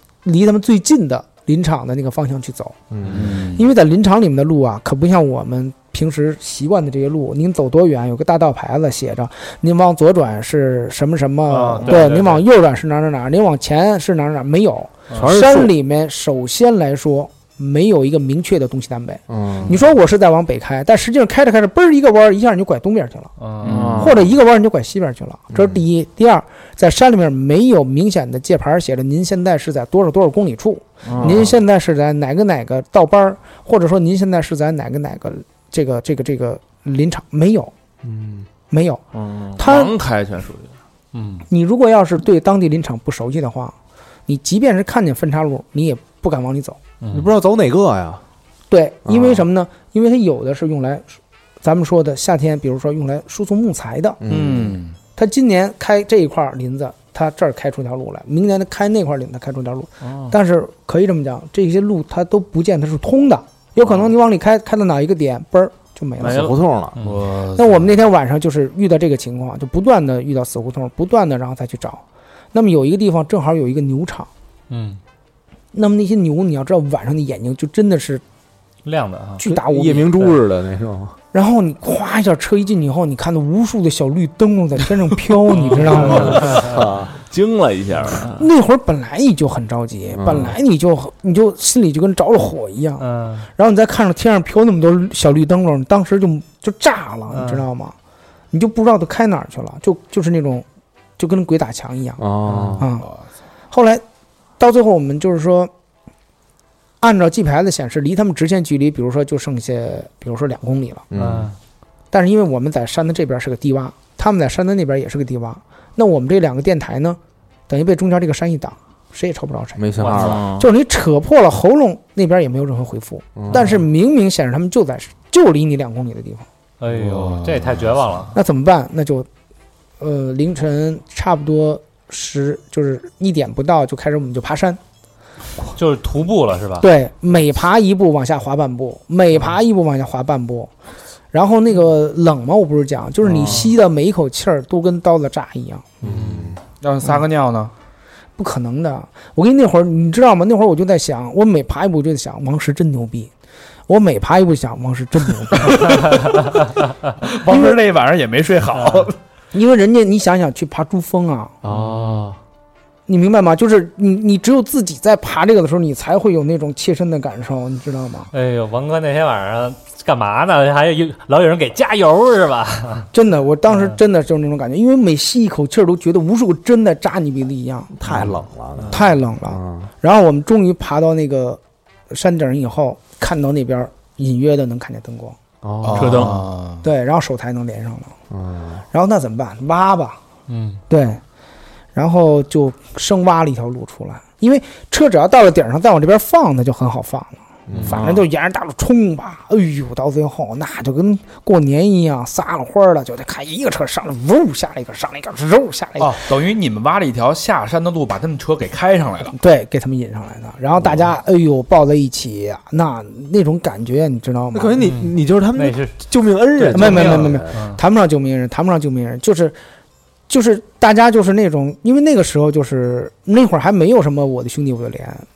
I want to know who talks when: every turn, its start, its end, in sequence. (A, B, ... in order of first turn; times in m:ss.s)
0:00.2-0:02.8 A
0:02.9-0:03.4 B
0:03.0-0:03.6 C
0:03.5-0:23.3 A
0:11.5-0:12.4 D
0:15.1-0:15.7 B
0:19.3-0:19.8 B
0:23.4-0:23.9 D
0:23.6-0:24.0 C
0:23.6-0:24.2 E
0:23.7-0:24.2 B
0:24.0-0:37.7 A
0:25.5-0:25.8 B
0:31.0-0:31.5 E
0:31.2-0:31.6 B
0:38.0-0:38.5 B
0:38.7-0:39.0 A
0:39.1-0:40.7 E
0:39.6-0:40.0 A
0:41.1-0:41.5 D
0:41.5-0:43.8 A
0:44.3-0:46.8 A
0:47.0-0:47.3 D
0:47.1-0:48.2 B
0:48.7-0:51.1 A
0:49.0-0:49.5 B
0:51.6-0:54.2 A
0:54.2-0:54.8 B
0:54.3-0:55.0 C
0:55.2-1:06.5 A
1:00.0-1:00.3 E
1:06.2-1:06.6 E
1:06.2-1:07.0 B
1:07.0-1:07.2 D
1:07.0-1:07.9 C
1:07.6-1:12.0 A
1:12.5-1:14.3 A
1:14.7-1:15.0 D
1:15.7-1:18.2 A
1:18.8-1:19.4 D
1:19.4-1:20.4 A
1:19.4-1:21.2 B
1:21.3-1:26.5 A
1:25.6-1:26.8 D
1:26.0-1:27.2 B
1:26.3-1:28.5 E
1:28.4-1:38.0 A
1:30.1-1:30.5 B
1:33.0-1:33.5 D
1:37.3-1:37.7 D
1:38.5-1:40.7 A
1:41.2-1:42.2 A
1:42.2-1:42.9 B
1:42.5-1:42.8 D
1:42.8-1:43.1 A
1:43.7-1:44.0 A
1:44.6-1:45.7 A
1:47.0-1:51.0 A
1:51.1-1:51.5 B
1:51.2-1:51.6 D
1:52.1-2:06.5 A
1:59.8-2:00.5 B
2:00.1-2:00.7 E
2:03.4-2:03.7 B
2:03.5-2:03.8 D
2:06.8-2:08.4 D
2:06.9-2:08.1 C
2:08.3-2:09.3 A
2:10.0-2:14.8 A
2:15.7-2:16.9 D
2:16.8-2:20.7 A
2:21.3-2:25.9 A
2:26.0-2:26.6 B
2:26.0-2:27.7 C
2:28.4-2:33.3 A
2:33.9-2:36.0 A
2:35.6-2:36.4 C
2:37.2-2:39.2 C
2:37.5-2:37.8 A
2:39.5-2:41.6 A
2:41.6-2:42.4 B
2:41.7-2:42.3 D
2:43.1-2:48.3 A
2:48.3-2:53.1 D
2:53.1-2:57.9 A
2:57.9-2:59.9 B
2:58.9-3:05.4 A
3:05.6-3:06.4 B
3:05.8-3:06.8 C
3:06.0-3:06.4 E
3:06.8-3:08.1 A
3:08.3-3:08.8 B
3:08.9-3:10.2 A
3:10.5-3:10.8 D
3:10.9-3:11.2 A
3:11.9-3:26.3 A
3:17.7-3:18.0 B
3:17.8-3:18.3 E
3:26.0-3:29.3 C
3:29.3-3:34.9 A
3:34.5-3:37.5 B
3:34.8-3:36.0 D
3:36.6-3:37.8 D
3:36.7-3:39.6 A
3:40.3-3:45.3 A